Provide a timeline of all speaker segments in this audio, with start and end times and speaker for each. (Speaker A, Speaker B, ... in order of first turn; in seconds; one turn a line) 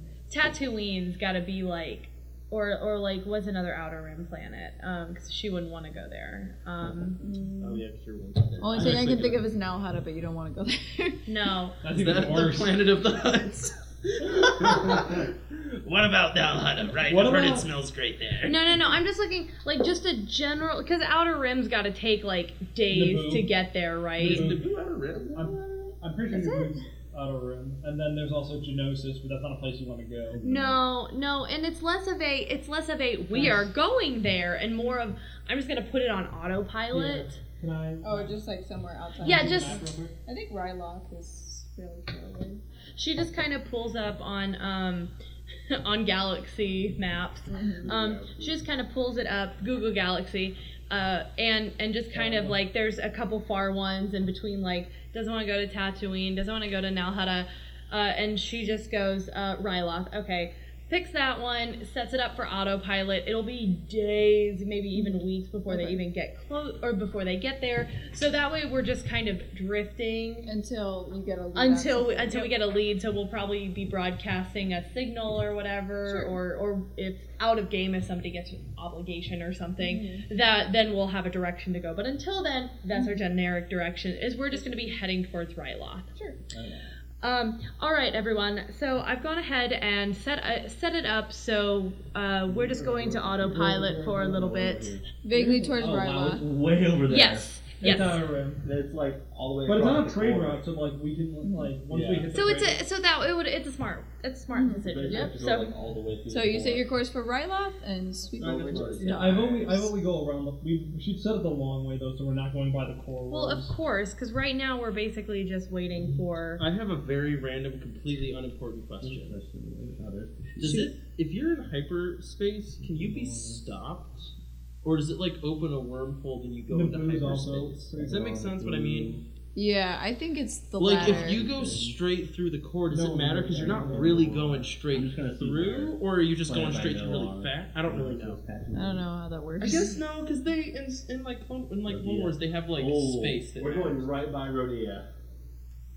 Speaker A: 0.3-7.2
Speaker B: 7.2-7.8
Speaker C: 7.6-9.4
Speaker B: 8.6-11.2
Speaker D: 8.6-9.2
Speaker A: 11.2-11.8
Speaker E: 11.8-12.8
Speaker C: 11.9-18.6
Speaker E: 17.0-17.7
Speaker A: 18.4-24.5
Speaker E: 22.9-23.5
Speaker C: 24.2-25.4
Speaker E: 24.2-24.6
Speaker B: 25.3-26.7
Speaker E: 25.3-30.8
Speaker A: 30.4-37.4
Speaker E: 33.3-33.7
Speaker E: 36.9-38.4
Speaker B: 38.0-42.6
Speaker E: 39.2-40.1
Speaker A: 39.2-39.8
Speaker A: 43.0-45.1
Speaker A: 45.7-70.5
Speaker B: 47.5-47.9
Speaker D: 47.9-48.5
Speaker E: 52.1-52.5
Speaker B: 64.9-66.0
Speaker B: 70.4-72.5
Speaker A: 71.5-86.3
Speaker B: 76.0-76.4
Speaker B: 79.8-80.2
Speaker A: 87.2-95.0
Speaker D: 92.5-95.0
Speaker E: 93.5-94.1
Speaker B: 95.2-96.4
Speaker E: 95.3-96.5
Speaker D: 96.3-97.5
Speaker A: 97.1-98.2
Speaker E: 97.8-98.6
Speaker D: 98.6-100.6
Speaker E: 99.6-102.8
Speaker B: 101.4-101.7
Speaker D: 101.9-102.3
Speaker A: 102.3-105.7
Speaker B: 104.5-105.3
Speaker D: 104.9-106.8
Speaker B: 106.3-109.9
Speaker D: 108.4-109.8
Speaker E: 108.7-113.7
Speaker A: 113.3-116.6
Speaker C: 116.6-119.4
Speaker D: 119.0-120.9
Speaker C: 120.6-129.2
Speaker E: 122.9-123.6
Speaker E: 126.7-128.4
Speaker D: 127.9-129.2
Speaker B: 129.5-131.5
Speaker C: 130.8-138.4
Speaker D: 130.9-132.0
Speaker E: 132.9-134.4
Speaker D: 133.4-135.9
Speaker D: 136.4-139.0
Speaker B: 138.7-140.0
Speaker C: 139.6-144.1
Speaker D: 141.9-145.1